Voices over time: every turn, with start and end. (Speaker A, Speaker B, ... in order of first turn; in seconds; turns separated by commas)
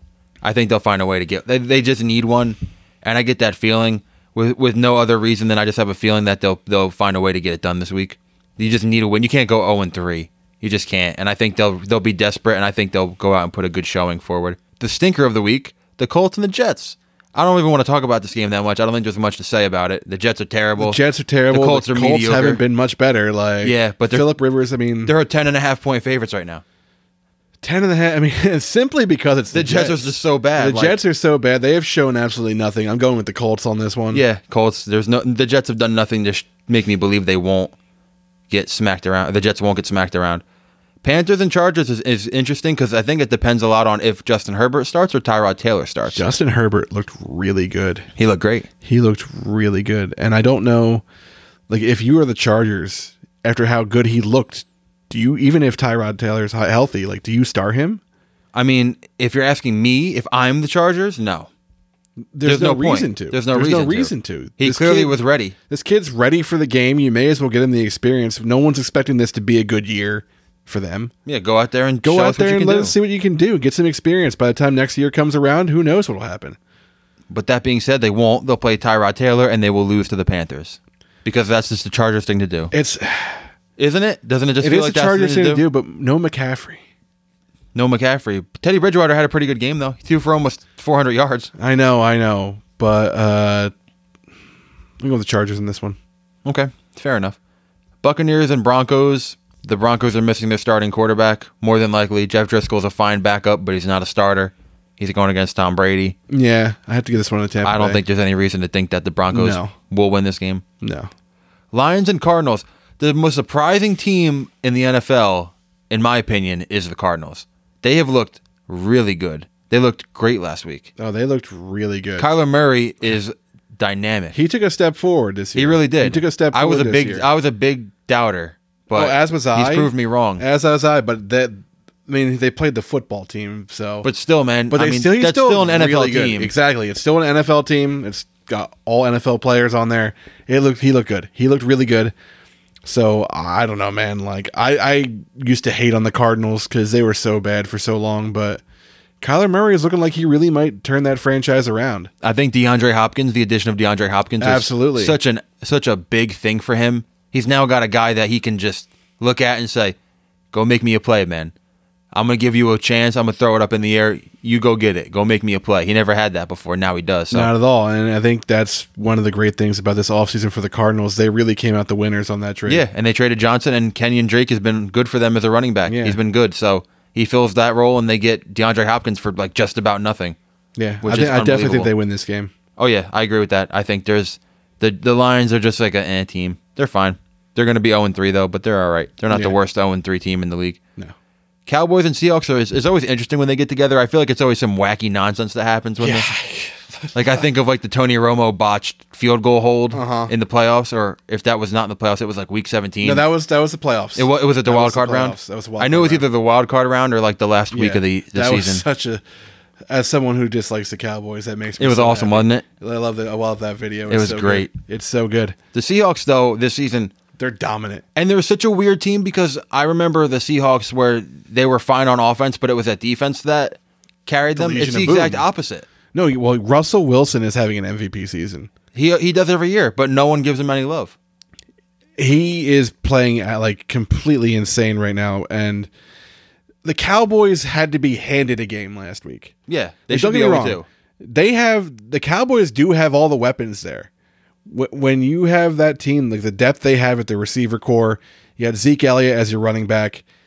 Speaker A: 0.4-21.0, Speaker B: 20.8-25.1, Speaker A: 21.5-22.6, Speaker A: 23.6-24.3, Speaker A: 25.1-26.6, Speaker B: 27.6-34.2, Speaker A: 29.5-31.0, Speaker A: 34.1-37.7, Speaker A: 38.5-40.4, Speaker A: 41.0-46.3, Speaker B: 46.1-48.1, Speaker A: 48.2-48.7, Speaker B: 48.8-51.0, Speaker B: 51.7-58.0, Speaker A: 58.5-61.5, Speaker B: 62.3-65.2, Speaker A: 62.5-65.5, Speaker B: 65.7-71.1, Speaker A: 71.3-73.0, Speaker B: 72.0-76.6, Speaker A: 77.3-82.7, Speaker B: 82.7-83.4, Speaker A: 83.8-85.6, Speaker B: 84.6-86.8, Speaker A: 87.8-91.5, Speaker B: 91.6-93.7, Speaker B: 95.0-96.0, Speaker A: 96.5-97.4, Speaker A: 98.0-106.2, Speaker B: 106.3-108.0, Speaker A: 107.6-110.6, Speaker B: 109.3-109.7, Speaker B: 110.8-111.1, Speaker A: 111.7-120.9, Speaker B: 121.0-122.3, Speaker A: 122.2-124.4, Speaker B: 124.3-127.3, Speaker A: 125.5-130.4, Speaker B: 128.9-134.1, Speaker A: 134.0-136.5, Speaker B: 134.7-142.1, Speaker B: 142.8-148.6, Speaker B: 149.2-152.1, Speaker A: 152.2-160.0, Speaker B: 154.4-155.2, Speaker A: 160.5-161.5, Speaker A: 162.1-167.5, Speaker B: 167.3-172.8, Speaker A: 172.7-180.4, Speaker B: 175.9-176.2, Speaker B: 180.8-182.5, Speaker A: 181.0-181.9, Speaker A: 182.8-190.8, Speaker B: 189.3-189.6, Speaker A: 191.7-196.3, Speaker B: 196.0-197.4, Speaker A: 197.1-203.2, Speaker B: 199.9-200.3, Speaker B: 203.0-206.3, Speaker A: 204.2-208.8, Speaker B: 207.7-209.2, Speaker B: 209.9-215.6, Speaker A: 211.8-212.7, Speaker A: 214.1-214.7, Speaker A: 215.7-217.1, Speaker B: 217.4-218.1, Speaker A: 218.2-225.9, Speaker B: 224.6-225.4, Speaker B: 226.1-228.7, Speaker A: 228.9-231.2, Speaker B: 232.2-235.9, Speaker B: 236.8-239.5, Speaker A: 239.7-240.9, Speaker B: 240.1-244.1, Speaker B: 244.7-250.2